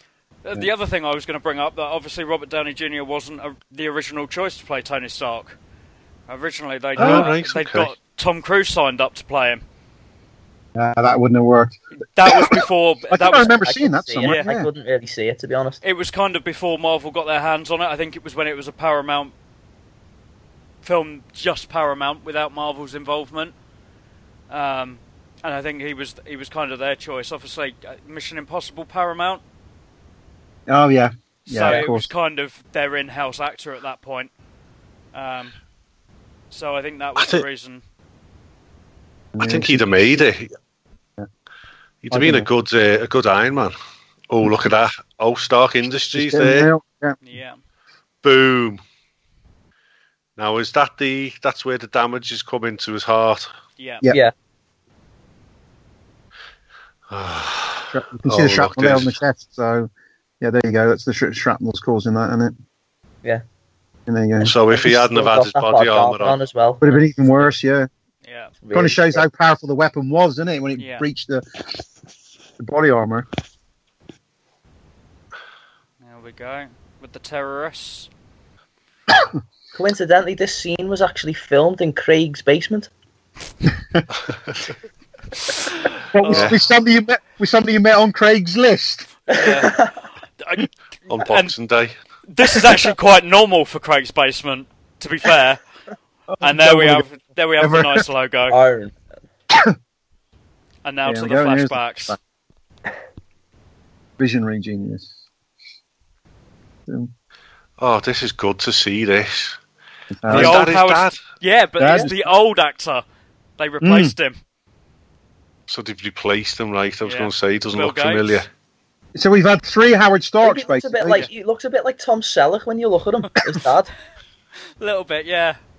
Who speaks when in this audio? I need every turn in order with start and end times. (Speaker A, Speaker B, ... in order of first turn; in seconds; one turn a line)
Speaker A: 0.4-5.6
Speaker A: 6.3-9.6
Speaker B: 7.0-7.3
Speaker C: 7.0-7.9
Speaker B: 10.8-14.7
Speaker A: 12.1-13.5
Speaker D: 13.4-15.8
Speaker A: 14.2-14.5
Speaker A: 15.8-19.3
Speaker A: 20.8-23.5
Speaker A: 24.5-29.4
Speaker B: 30.7-32.1
Speaker A: 31.5-34.3
Speaker A: 35.1-35.6
Speaker A: 36.5-37.8
Speaker C: 37.2-37.4
Speaker B: 39.3-40.2
Speaker C: 39.4-40.5
Speaker C: 42.0-43.8
Speaker B: 42.1-42.5
Speaker C: 44.3-46.7
Speaker B: 46.1-47.2
Speaker A: 47.2-47.6
Speaker C: 48.2-48.8
Speaker C: 50.4-53.5
Speaker A: 53.8-54.0
Speaker C: 57.1-59.1
Speaker B: 57.9-59.9
Speaker B: 60.4-62.5
Speaker B: 64.1-64.5
Speaker C: 64.4-66.3
Speaker D: 64.7-67.4
Speaker B: 66.8-67.9
Speaker A: 68.2-68.5
Speaker D: 68.6-69.2
Speaker B: 68.7-71.7
Speaker A: 70.8-71.0
Speaker B: 72.6-73.3
Speaker A: 76.0-78.1
Speaker B: 79.1-79.3
Speaker D: 79.7-82.9
Speaker C: 84.3-84.5
Speaker A: 85.7-86.5
Speaker B: 86.1-89.1
Speaker C: 86.3-86.6
Speaker A: 89.3-89.7
Speaker D: 89.3-89.9
Speaker A: 90.4-90.7
Speaker C: 91.1-91.9
Speaker A: 91.2-91.5
Speaker A: 92.3-95.6
Speaker B: 96.3-97.0
Speaker A: 96.4-98.5
Speaker B: 97.6-98.0
Speaker D: 98.5-99.0
Speaker B: 99.5-99.8
Speaker A: 100.8-102.2
Speaker B: 101.0-102.2
Speaker B: 104.2-105.1
Speaker C: 107.8-109.6
Speaker B: 110.2-110.6
Speaker C: 110.3-111.2
Speaker A: 110.3-113.0
Speaker B: 111.8-112.2
Speaker A: 113.6-114.4
Speaker B: 113.8-114.1
Speaker C: 115.7-118.5
Speaker A: 117.0-118.4
Speaker B: 119.2-121.3
Speaker D: 120.4-123.9
Speaker A: 124.8-125.6